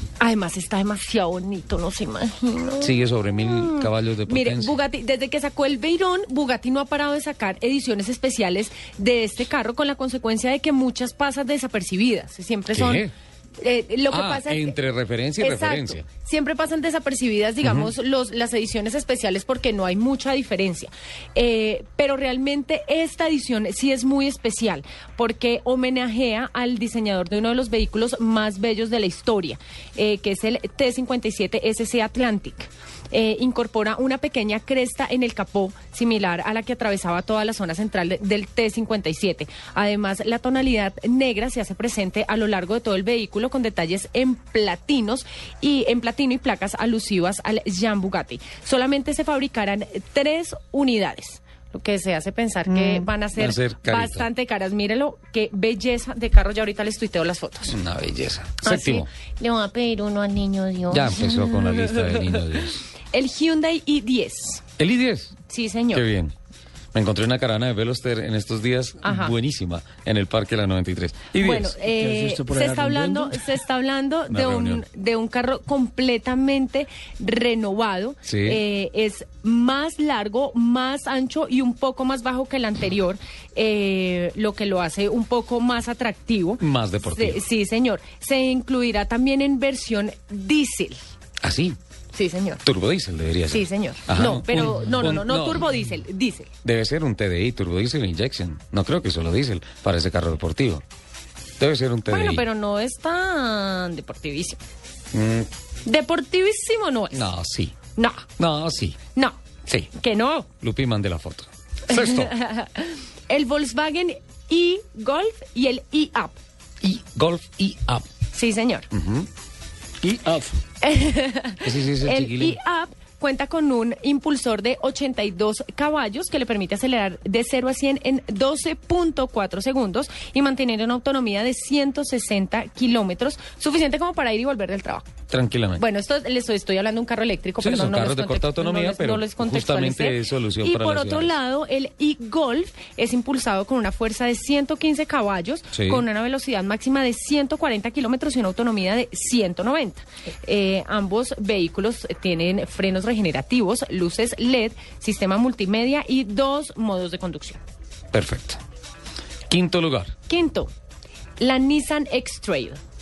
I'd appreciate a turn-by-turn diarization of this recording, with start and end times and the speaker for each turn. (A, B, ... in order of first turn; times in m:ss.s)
0:00.2-0:14.8 A
0:02.8-0:04.8 B
0:12.7-0:13.1 B
0:14.1-0:16.0 B
0:15.4-0:57.8 A
0:17.6-0:17.9 B
0:52.7-0:54.3 B
0:57.7-0:59.1 B
0:58.6-1:04.6 A
1:00.9-1:02.8 B
1:04.8-1:05.4 B
1:05.5-1:06.0 A
1:05.9-1:06.3 B
1:06.9-1:11.7 B
1:09.0-1:09.3 A
1:11.4-1:31.0 A
1:11.8-1:13.5 C
1:14.3-1:14.8 B
1:18.3-1:18.6 B
1:26.6-1:27.4 B
1:31.4-1:31.8 B
1:32.1-1:32.6 A
1:32.6-1:35.7 B
1:33.5-1:36.5 A
1:36.6-1:40.8 B
1:41.6-1:42.4 B
1:42.1-1:44.6 A
1:45.1-1:45.5 B
1:45.8-1:47.2 A
1:47.1-1:47.8 B
1:48.0-1:48.3 A
1:48.4-1:49.0 B
1:49.1-1:50.5 A
1:50.6-1:52.3 B
1:51.9-1:56.4 A
1:56.8-1:58.1 B
1:58.3-1:58.9 A
1:58.9-1:59.3 B
2:00.0-2:00.6 C
2:00.8-2:15.1 A
2:01.6-2:02.6 B
2:15.3-2:15.8 B
2:15.8-2:37.6 A
2:17.6-2:21.3 B
2:25.7-2:26.0 B
2:38.1-2:38.6 B
2:39.5-2:40.2 B
2:40.3-2:40.7 A
2:41.4-2:42.8 A